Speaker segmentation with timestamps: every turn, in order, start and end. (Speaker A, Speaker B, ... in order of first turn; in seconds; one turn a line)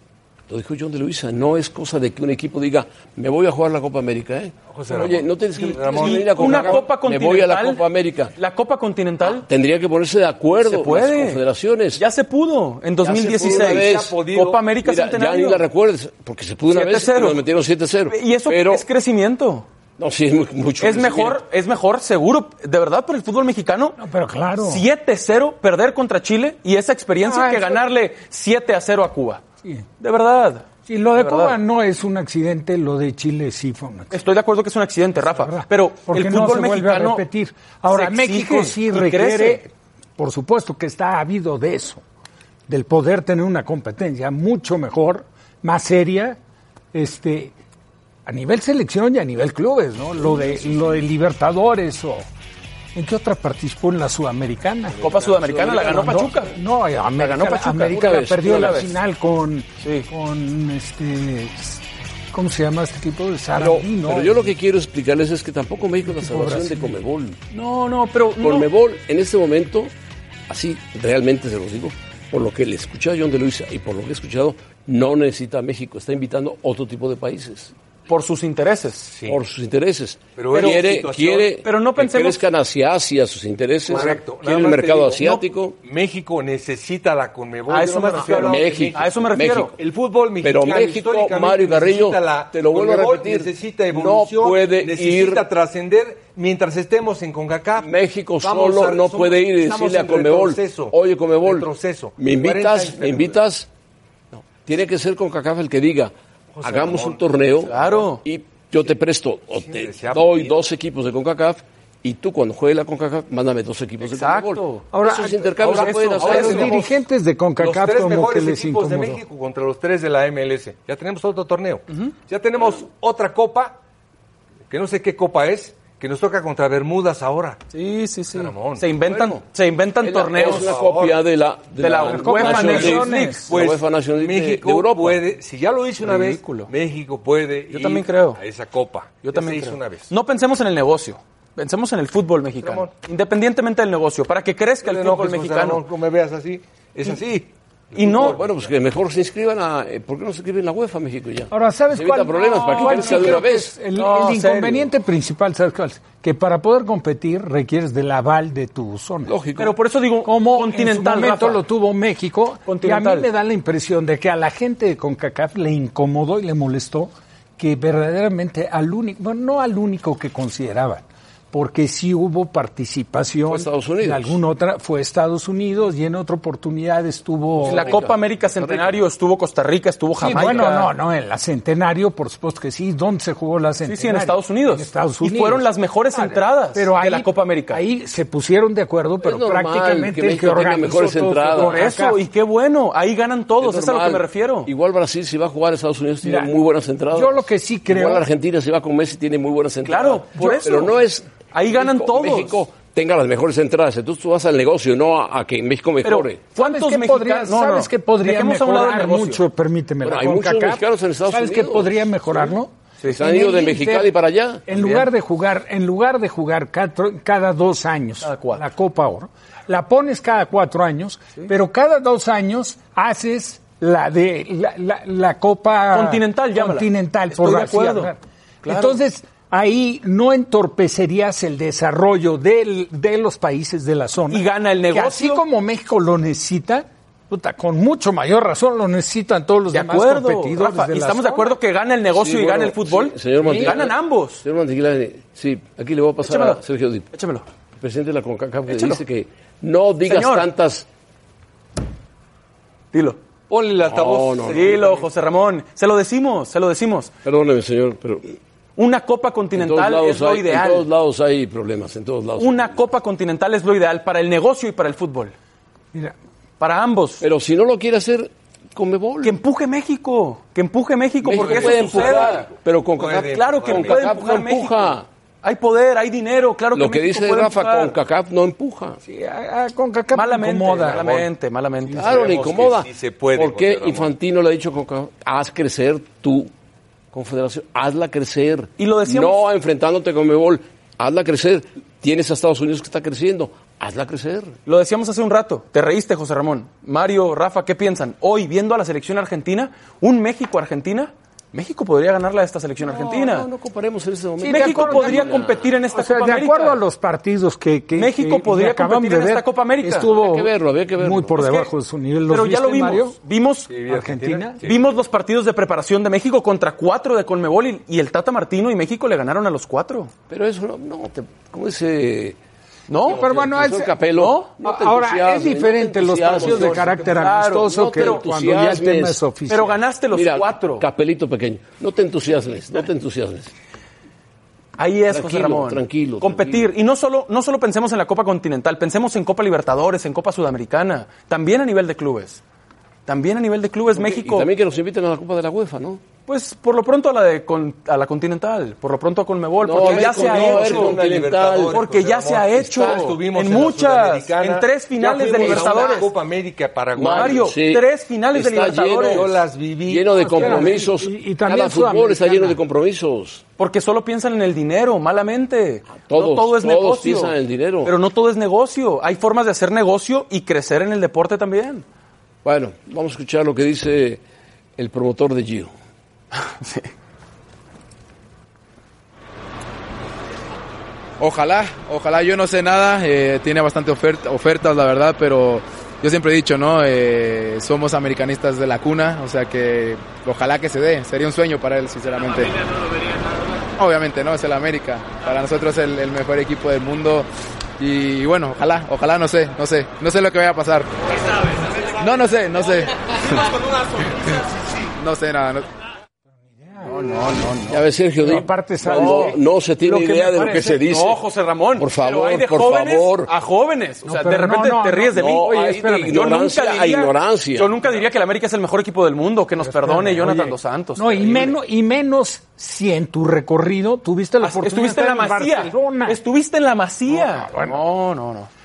Speaker A: 0.5-8.3
Speaker B: 4.7-6.9
Speaker C: 5.6-7.8
Speaker C: 8.3-9.4
Speaker A: 9.2-12.0
Speaker C: 10.6-11.4
Speaker C: 11.9-15.6
Speaker A: 13.0-14.3
Speaker B: 13.1-14.7
Speaker A: 14.8-18.8
Speaker C: 16.7-17.4
Speaker C: 18.1-19.6
Speaker A: 20.0-21.4
Speaker C: 20.8-24.0
Speaker D: 24.0-24.8
Speaker C: 24.6-29.4
Speaker D: 27.2-27.8
Speaker C: 30.0-31.6
Speaker D: 30.9-34.1
Speaker C: 34.1-37.2
Speaker D: 35.2-42.0
Speaker C: 37.9-39.6
Speaker D: 42.7-46.4
Speaker D: 46.9-47.5
Speaker D: 48.2-52.3
Speaker D: 52.9-64.5
Speaker C: 55.0-56.5
Speaker A: 55.2-56.1
Speaker C: 57.2-58.9
Speaker A: 57.8-58.9
Speaker C: 59.8-60.1
Speaker A: 63.6-67.4
Speaker D: 66.0-66.9
Speaker C: 67.5-68.7
Speaker A: 68.4-69.9
Speaker A: 70.5-77.7
Speaker C: 78.1-79.1
Speaker B: 79.1-79.4
Speaker A: 79.2-85.8
Speaker B: 80.3-81.5
Speaker C: 80.5-80.8
Speaker C: 81.6-82.5
Speaker B: 83.9-103.4
Speaker C: 87.7-89.7
Speaker A: 88.2-89.7
Speaker A: 90.4-95.4
Speaker A: 97.8-103.7
Speaker A: 104.3-116.9
Speaker B: 106.6-108.1
Speaker C: 107.7-108.2
Speaker B: 109.6-110.6
Speaker C: 114.0-114.8
Speaker D: 114.9-119.2
Speaker B: 115.6-116.9
Speaker C: 115.6-116.8
Speaker B: 117.6-123.8
Speaker B: 124.7-127.6
Speaker C: 127.7-130.7
Speaker B: 128.3-129.3
Speaker A: 130.0-135.2
Speaker B: 130.3-131.2
Speaker C: 131.8-133.5
Speaker D: 132.1-133.5
Speaker B: 132.7-133.0
Speaker B: 133.5-140.1
Speaker C: 136.0-136.7
Speaker C: 137.7-138.4
Speaker C: 139.2-145.8
Speaker B: 142.6-142.9
Speaker B: 144.8-148.7
Speaker C: 147.9-148.4
Speaker A: 148.0-153.7
Speaker D: 151.5-159.3
Speaker C: 152.7-154.9
Speaker A: 159.2-159.8
Speaker C: 159.6-161.6
Speaker D: 160.2-178.0
Speaker C: 162.7-163.3
Speaker A: 173.5-174.3
Speaker A: 177.6-179.0
Speaker C: 177.6-180.9
Speaker D: 180.2-192.2
Speaker A: 180.3-180.7
Speaker C: 183.8-187.8
Speaker A: 189.2-191.9
Speaker C: 191.5-194.7
Speaker A: 193.6-206.4
Speaker D: 196.2-196.5
Speaker D: 197.1-198.2
Speaker C: 199.8-200.9
Speaker C: 201.5-202.6
Speaker C: 206.0-209.4
Speaker D: 206.6-214.1
Speaker A: 210.0-212.5
Speaker A: 213.1-214.7
Speaker D: 214.7-241.5
Speaker C: 214.7-215.1
Speaker C: 218.2-218.6
Speaker C: 225.9-228.1
Speaker C: 228.6-229.0
Speaker C: 234.3-235.4
Speaker C: 239.7-244.4
Speaker A: 242.1-247.1
Speaker D: 243.4-243.8
Speaker C: 246.2-246.6
Speaker C: 247.1-247.4
Speaker A: 247.8-250.8
Speaker C: 248.7-249.0
Speaker C: 250.1-250.5
Speaker C: 252.9-253.2
Speaker B: 253.5-255.1
Speaker A: 253.8-254.8
Speaker C: 254.5-257.1
Speaker A: 257.2-258.4
Speaker C: 258.8-260.9
Speaker A: 259.5-262.8
Speaker C: 262.4-265.3
Speaker C: 266.6-267.2
Speaker A: 267.2-269.4
Speaker C: 269.2-272.5
Speaker A: 271.2-275.1
Speaker B: 271.3-274.1
Speaker C: 273.2-277.9
Speaker A: 276.7-279.0
Speaker D: 279.0-281.2
Speaker C: 280.1-282.1
Speaker B: 281.9-284.1
Speaker A: 281.9-286.5
Speaker A: 287.1-294.6
Speaker C: 288.8-289.4
Speaker C: 294.6-303.5
Speaker A: 302.8-305.7
Speaker D: 304.4-305.4
Speaker C: 304.4-306.8
Speaker D: 305.9-313.1
Speaker C: 307.9-310.1
Speaker A: 310.1-311.6
Speaker C: 311.4-311.6
Speaker C: 312.3-313.7
Speaker B: 313.7-314.9
Speaker D: 313.9-314.6
Speaker C: 314.6-320.1
Speaker A: 320.3-322.4
Speaker C: 322.9-323.3
Speaker A: 323.0-329.2
Speaker D: 323.1-324.0
Speaker C: 324.1-324.5
Speaker D: 324.6-329.8
Speaker C: 326.4-328.2
Speaker C: 329.5-330.8
Speaker A: 330.1-333.5
Speaker C: 334.8-342.4
Speaker A: 335.1-336.7
Speaker C: 343.1-344.5
Speaker A: 343.9-346.0
Speaker C: 346.3-351.0
Speaker A: 349.6-351.8
Speaker B: 349.7-357.5
Speaker C: 351.7-356.1
Speaker A: 352.8-353.0
Speaker A: 355.4-355.9
Speaker A: 356.9-363.4
Speaker C: 357.0-359.3
Speaker B: 359.0-360.8
Speaker D: 360.2-362.6
Speaker C: 363.6-371.8
Speaker A: 365.9-367.9
Speaker A: 372.4-374.2
Speaker A: 374.8-375.7
Speaker C: 376.3-376.9
Speaker E: 381.2-392.6
Speaker E: 393.8-397.3
Speaker E: 397.8-400.9
Speaker E: 401.9-402.9
Speaker E: 404.9-405.6
Speaker D: 406.6-407.1
Speaker C: 406.9-407.8
Speaker A: 407.7-411.2
Speaker D: 408.2-410.8
Speaker C: 408.8-409.4
Speaker C: 410.5-421.5
Speaker A: 411.8-413.3
Speaker D: 414.0-416.2
Speaker A: 415.1-417.8
Speaker D: 419.6-426.2
Speaker C: 424.4-428.5
Speaker D: 427.1-427.8